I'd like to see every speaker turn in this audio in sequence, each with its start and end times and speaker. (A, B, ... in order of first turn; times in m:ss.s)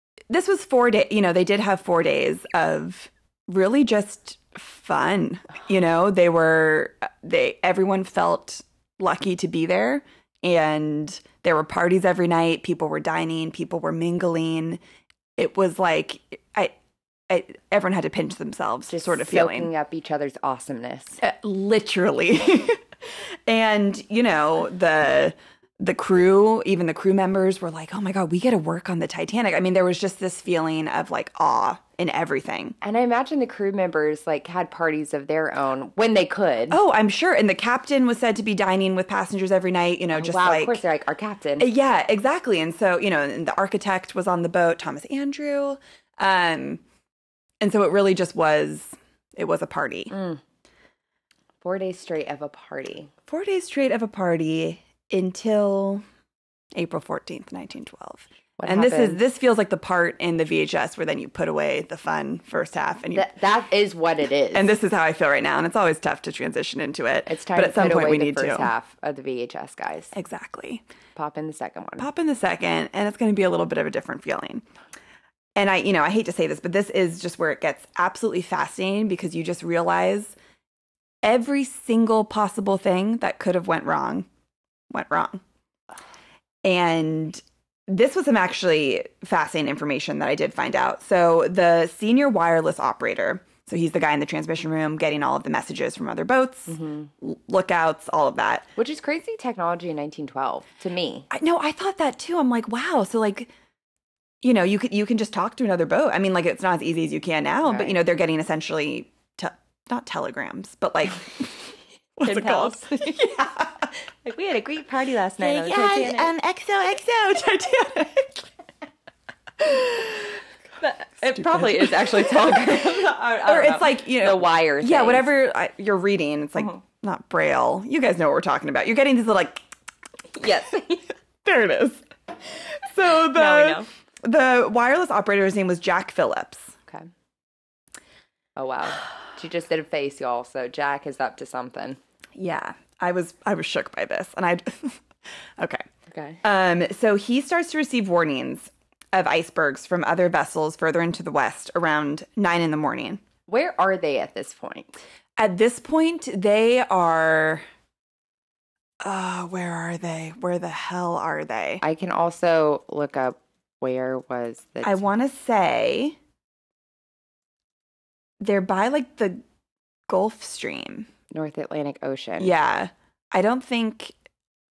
0:00.3-0:14.8 A
0:15.4-0:16.7 A
0:17.3-0:19.7 A
0:18.9-0:21.2 B
0:21.2-0:22.8 A
0:23.5-0:32.8 A
0:32.8-0:36.8 B
0:36.7-0:40.8 A
0:40.1-0:41.7 B
0:41.6-0:46.8 A
0:47.6-0:50.1 A
0:50.1-0:50.4 B
0:51.6-0:53.1 B
0:53.3-0:56.0 A
0:56.7-1:03.3 A
0:58.6-0:59.2 B
1:03.1-1:04.7 B
1:04.5-1:08.7 A
1:07.3-1:10.1 B
1:10.1-1:10.8 A
1:11.2-1:12.1 B
1:12.0-1:14.6 A
1:15.6-1:20.3 A
1:21.2-1:24.3 A
1:24.9-1:25.4 A
1:26.6-1:38.7 A
1:36.7-1:37.1 B
1:38.8-1:41.3 B
1:41.3-1:43.5 A
1:44.4-1:53.9 A
1:47.6-1:48.0 B
1:52.2-1:53.5 B
1:54.2-1:56.3 B
1:55.4-1:58.5 A
1:59.6-2:00.4 A
2:00.8-2:05.3 B
2:01.3-2:02.5 A
2:03.4-2:09.6 A
2:10.3-2:11.0 B
2:11.4-2:12.0 A
2:12.7-2:16.7 A
2:13.1-2:13.9 B
2:18.6-2:22.0 B
2:22.4-2:25.0 A
2:25.6-2:25.8 A
2:26.1-2:26.4 B
2:26.4-2:33.2 A
2:33.5-2:35.0 B
2:35.4-2:37.6 A
2:39.0-2:41.8 A
2:41.8-2:45.0 B
2:44.8-2:46.2 A
2:48.4-2:49.4 A
2:50.1-2:51.1 A
2:51.3-2:52.5 B
2:52.4-2:54.1 A